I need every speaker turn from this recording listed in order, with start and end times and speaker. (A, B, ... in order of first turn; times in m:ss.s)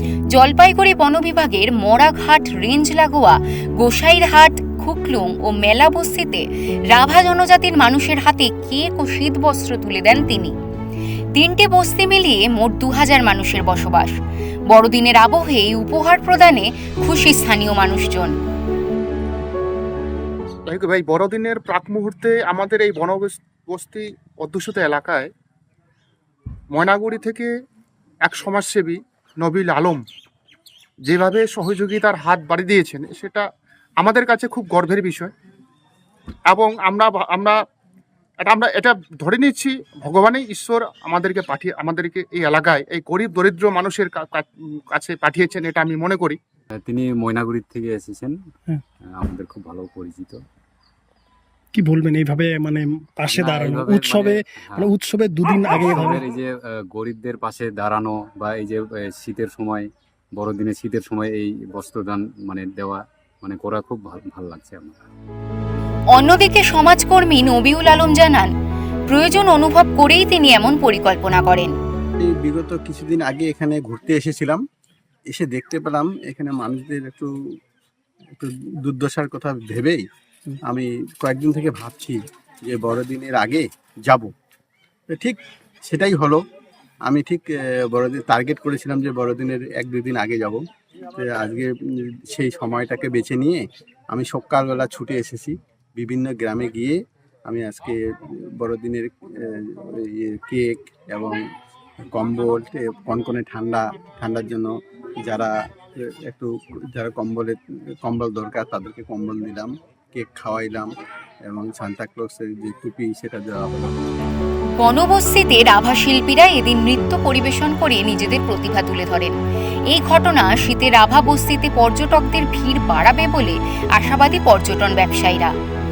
0:00.3-0:10.5 A
0:11.4-0:14.2 A
0:14.7-0:18.3 A
0:20.7-0:25.3 B
0:26.7-0:27.5 B
0:28.2-0:30.0 B
0:31.1-0:33.5 B
0:34.0-0:35.3 B
0:36.5-0:37.6 B
0:38.4-0:46.4 B
0:46.8-0:48.4 C
0:49.1-0:50.4 C
0:51.7-0:56.2 D
0:53.3-0:54.9 C
0:55.6-1:05.0 C
1:06.1-1:08.5 A
1:09.1-1:11.7 A
1:12.2-1:14.6 E
1:15.4-1:17.3 E
1:18.4-1:20.0 E
1:20.7-1:24.3 E
1:25.9-1:26.4 E
1:27.1-1:30.6 E
1:31.2-1:31.7 E
1:32.3-1:38.0 E
1:38.6-1:41.4 E
1:42.2-1:44.7 E
1:45.3-1:45.5 E
1:46.3-1:50.9 E
1:51.5-1:53.9 E
1:54.8-1:59.4 A
1:59.9-2:05.5 A